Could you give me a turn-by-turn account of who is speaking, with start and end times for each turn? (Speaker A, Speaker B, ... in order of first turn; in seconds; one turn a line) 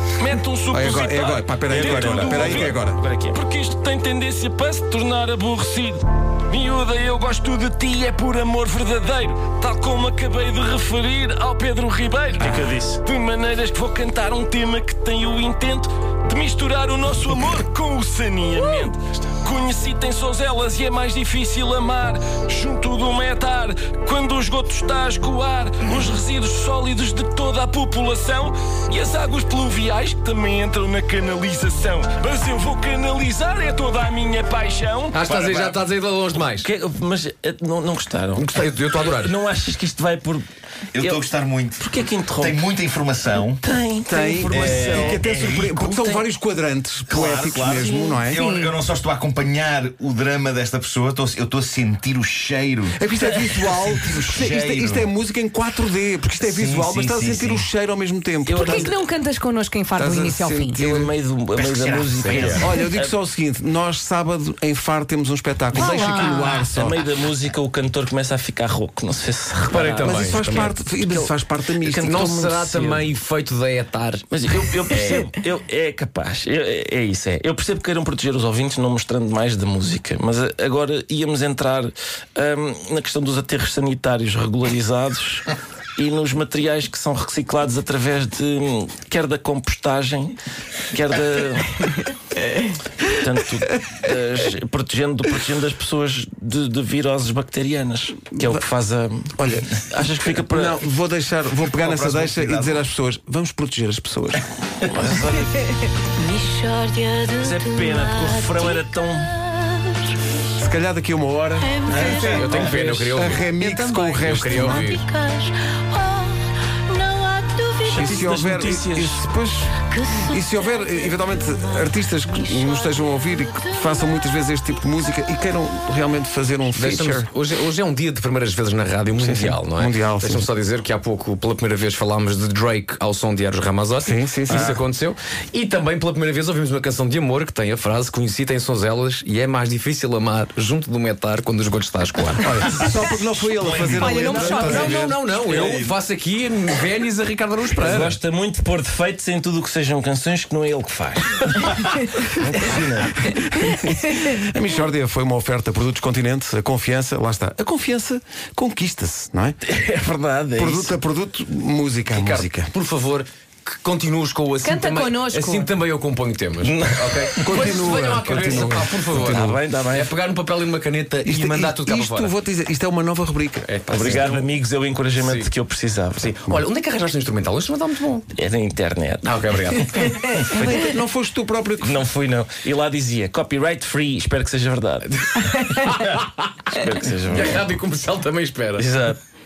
Speaker A: 0.2-35.2
Speaker B: 0.7-3.0
Speaker B: 12.4-12.7
Speaker C: 35.1-36.7
Speaker D: 35.2-35.8
Speaker A: 36.4-38.5
Speaker C: 38.4-39.4
Speaker A: 39.0-40.5
Speaker D: 40.9-43.6
Speaker A: 41.0-41.2
Speaker A: 41.8-42.7
Speaker A: 43.6-46.3
Speaker B: 44.1-48.4
Speaker D: 44.5-45.7
Speaker A: 47.1-48.2
Speaker D: 47.1-55.1
Speaker E: 48.3-48.8
Speaker B: 52.9-59.0
Speaker D: 56.4-57.7
Speaker A: 58.5-59.0
Speaker E: 58.5-60.8
Speaker B: 60.0-61.1
Speaker A: 60.8-63.1
Speaker D: 61.6-62.6
Speaker C: 62.2-62.7
Speaker B: 62.6-67.0
Speaker E: 65.7-66.7
Speaker A: 66.5-73.1
Speaker C: 69.7-70.8
Speaker B: 70.0-72.6
Speaker C: 72.0-75.2
Speaker A: 74.3-90.4
Speaker A: 90.9-92.1
Speaker A: 93.0-100.8
Speaker B: 99.4-99.8
Speaker B: 100.5-104.4
Speaker D: 101.6-102.8
Speaker A: 104.9-105.6
Speaker F: 106.2-110.1
Speaker A: 107.4-109.3
Speaker B: 110.5-111.8
Speaker F: 111.6-118.4
Speaker D: 111.9-112.7
Speaker C: 112.1-113.6
Speaker A: 112.6-113.1
Speaker B: 113.1-114.9
Speaker C: 114.1-115.0
Speaker B: 117.9-127.3
Speaker A: 117.9-119.2
Speaker F: 119.8-124.1
Speaker C: 126.7-142.7
Speaker B: 129.2-130.5
Speaker B: 134.0-134.8
Speaker B: 142.4-145.2
Speaker D: 143.6-145.9
Speaker E: 144.0-145.0
Speaker C: 144.2-148.2
Speaker A: 147.8-151.8
Speaker A: 152.3-153.3
Speaker B: 153.2-159.6
Speaker A: 159.6-160.9
Speaker B: 160.6-162.7
Speaker C: 162.1-172.3
Speaker E: 164.6-165.7
Speaker A: 166.6-167.8
Speaker B: 167.4-169.0
Speaker A: 169.1-170.2
Speaker B: 171.2-174.2
Speaker C: 173.7-174.5
Speaker A: 173.9-176.3
Speaker C: 175.2-175.5
Speaker C: 176.2-178.3
Speaker A: 178.4-179.3
Speaker C: 179.2-180.4
Speaker A: 180.1-180.5
Speaker B: 180.4-182.0
Speaker A: 181.8-185.1
Speaker C: 185.3-186.4
Speaker A: 186.7-187.8
Speaker C: 187.2-188.9
Speaker A: 188.8-189.2